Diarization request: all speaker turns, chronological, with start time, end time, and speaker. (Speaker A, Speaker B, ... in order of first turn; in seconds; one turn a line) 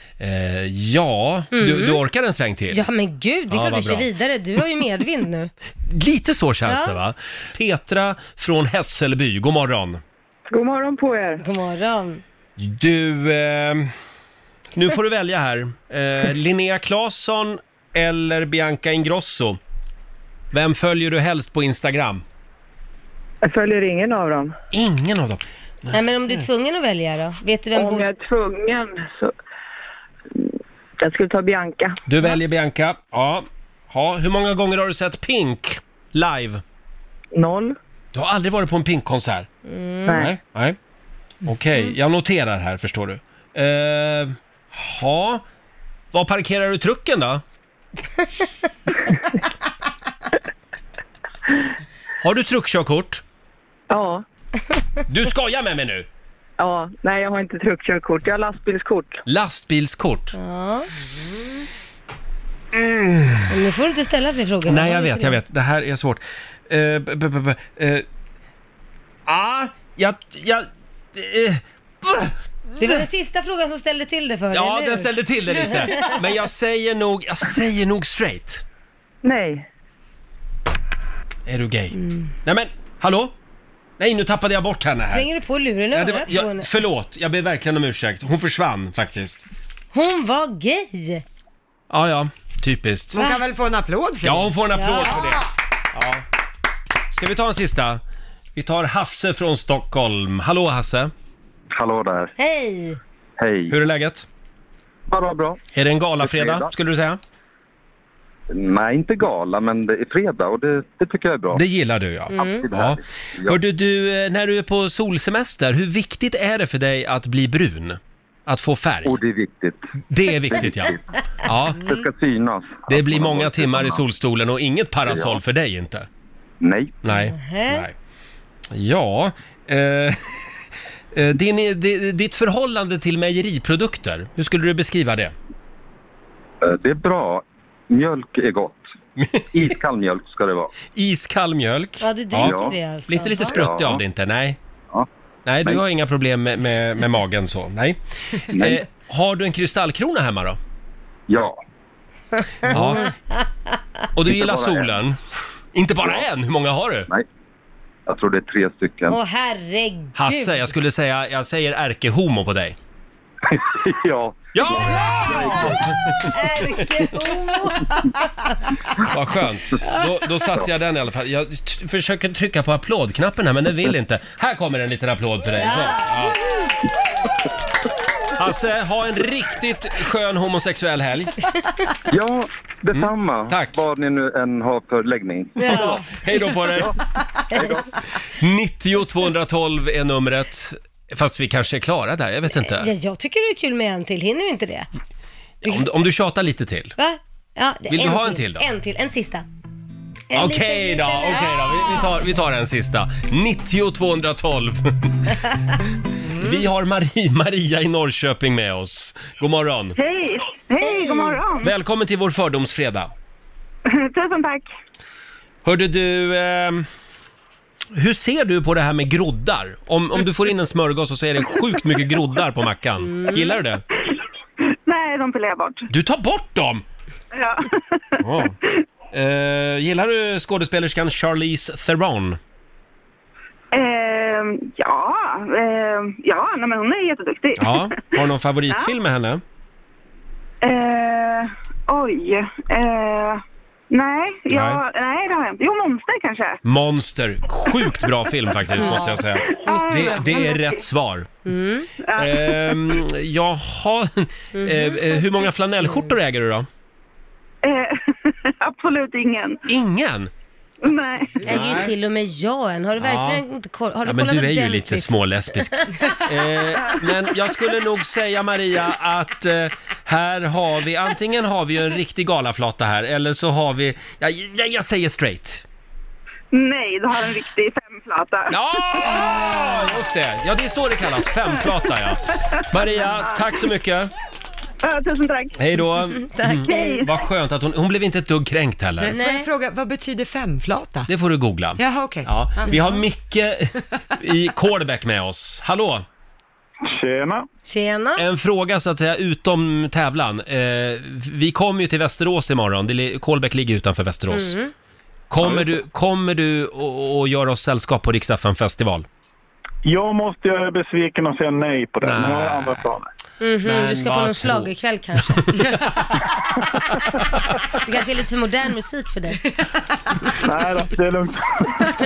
Speaker A: 0.2-2.8
Speaker B: 1.5-2.0
Speaker B: 2.7-5.5
Speaker A: 3.5-4.1
Speaker A: 5.9-10.0
Speaker B: 6.7-7.0
Speaker C: 10.5-11.4
Speaker B: 11.4-12.2
Speaker A: 12.6-13.9
Speaker A: 14.8-19.6
Speaker A: 20.5-22.2
Speaker C: 23.4-24.6
Speaker A: 24.7-26.0
Speaker B: 25.9-28.1
Speaker C: 27.7-29.3
Speaker C: 30.4-32.0
Speaker A: 32.1-36.6
Speaker C: 37.3-37.8
Speaker A: 38.1-39.5
Speaker B: 39.7-40.2
Speaker C: 40.1-40.3
Speaker A: 40.1-40.8
Speaker A: 41.5-45.4
Speaker A: 46.1-47.4
Speaker A: 52.2-53.2
Speaker C: 53.9-54.2
Speaker A: 55.1-56.1
Speaker C: 56.6-59.2
Speaker A: 59.3-60.4
Speaker B: 60.4-60.9
Speaker A: 62.7-63.5
Speaker B: 63.5-65.4
Speaker A: 64.7-68.0
Speaker A: 69.3-73.1
Speaker B: 72.8-76.2
Speaker A: 74.5-78.6
Speaker C: 79.2-79.7
Speaker A: 81.5-83.3
Speaker B: 82.0-82.3
Speaker A: 84.0-85.3
Speaker B: 85.1-86.7
Speaker A: 85.9-89.4
Speaker B: 89.9-91.2
Speaker A: 91.9-93.2
Speaker D: 93.1-94.6
Speaker A: 94.2-96.2
Speaker B: 94.7-95.3
Speaker A: 97.1-98.0
Speaker A: 98.6-101.1
Speaker E: 101.7-102.3
Speaker B: 102.4-103.0
Speaker E: 103.4-103.8
Speaker A: 103.7-104.3
Speaker E: 105.1-105.6
Speaker A: 105.7-107.2
Speaker E: 106.2-106.7
Speaker E: 108.5-111.6
Speaker A: 111.5-119.2
Speaker B: 112.3-112.7
Speaker E: 112.4-113.6
Speaker E: 119.0-119.8
Speaker A: 120.1-121.9
Speaker E: 120.4-121.0
Speaker E: 121.7-124.0
Speaker A: 122.9-126.1
Speaker E: 125.1-125.4
Speaker E: 126.6-127.0
Speaker A: 127.0-128.0
Speaker B: 127.3-127.9
Speaker A: 128.7-130.4
Speaker A: 131.1-135.3
Speaker E: 136.6-138.9
Speaker A: 139.2-139.4
Speaker E: 139.5-140.7
Speaker A: 140.9-144.6
Speaker B: 142.0-143.6
Speaker E: 142.4-142.8
Speaker E: 143.5-144.0
Speaker A: 145.5-150.6
Speaker E: 148.5-148.8
Speaker E: 151.3-151.6
Speaker A: 152.7-153.1
Speaker A: 154.2-155.2
Speaker E: 154.2-155.0
Speaker A: 155.7-157.1
Speaker E: 158.1-159.2
Speaker B: 159.1-160.6
Speaker A: 160.2-162.8
Speaker E: 163.5-165.8
Speaker A: 164.5-167.2
Speaker B: 166.3-168.6
Speaker A: 169.1-176.4
Speaker B: 175.6-176.1
Speaker A: 178.4-181.4
Speaker E: 182.1-186.0
Speaker A: 182.9-183.8
Speaker B: 185.6-186.0
Speaker A: 185.6-187.0
Speaker E: 187.5-187.9
Speaker A: 188.2-192.9
Speaker B: 192.6-194.9
Speaker A: 195.6-197.0
Speaker B: 197.0-199.4
Speaker A: 197.9-198.7
Speaker B: 200.3-202.1
Speaker A: 200.3-205.3
Speaker A: 206.3-210.0
Speaker F: 210.0-211.7
Speaker A: 211.6-213.1
Speaker F: 213.9-214.7
Speaker A: 215.6-216.9
Speaker A: 217.9-223.8
Speaker B: 223.1-223.6
Speaker F: 224.9-225.9
Speaker A: 225.9-226.8
Speaker F: 227.3-228.0
Speaker A: 228.2-228.6
Speaker A: 229.1-232.4
Speaker F: 233.7-238.2
Speaker A: 237.6-239.4
Speaker F: 240.6-246.6
Speaker A: 244.5-244.8
Speaker A: 246.6-251.3
Speaker F: 248.8-250.8
Speaker B: 248.8-249.2
Speaker B: 251.5-251.9
Speaker F: 252.0-253.0
Speaker A: 252.2-256.7
Speaker B: 254.6-256.1
Speaker F: 257.6-259.6
Speaker A: 259.7-260.3
Speaker F: 260.8-261.5
Speaker A: 261.4-261.9
Speaker B: 261.4-266.2
Speaker A: 263.0-263.4
Speaker A: 264.1-275.6
Speaker F: 276.5-279.3
Speaker A: 278.5-284.1
Speaker F: 282.5-283.4
Speaker F: 284.8-285.9
Speaker A: 285.6-289.1
Speaker B: 286.1-287.0
Speaker F: 286.6-287.2
Speaker D: 289.0-291.1
Speaker B: 289.1-289.5
Speaker A: 291.1-296.1
Speaker D: 291.8-293.0
Speaker G: 296.9-297.4
Speaker B: 297.7-298.2
Speaker A: 298.2-304.6
Speaker B: 304.3-304.7
Speaker A: 305.3-309.1
Speaker G: 305.4-305.8
Speaker G: 309.8-313.1
Speaker A: 312.0-312.8
Speaker B: 313.4-315.8
Speaker A: 313.6-314.7
Speaker A: 315.2-317.5
Speaker B: 317.7-319.5
Speaker G: 320.4-321.9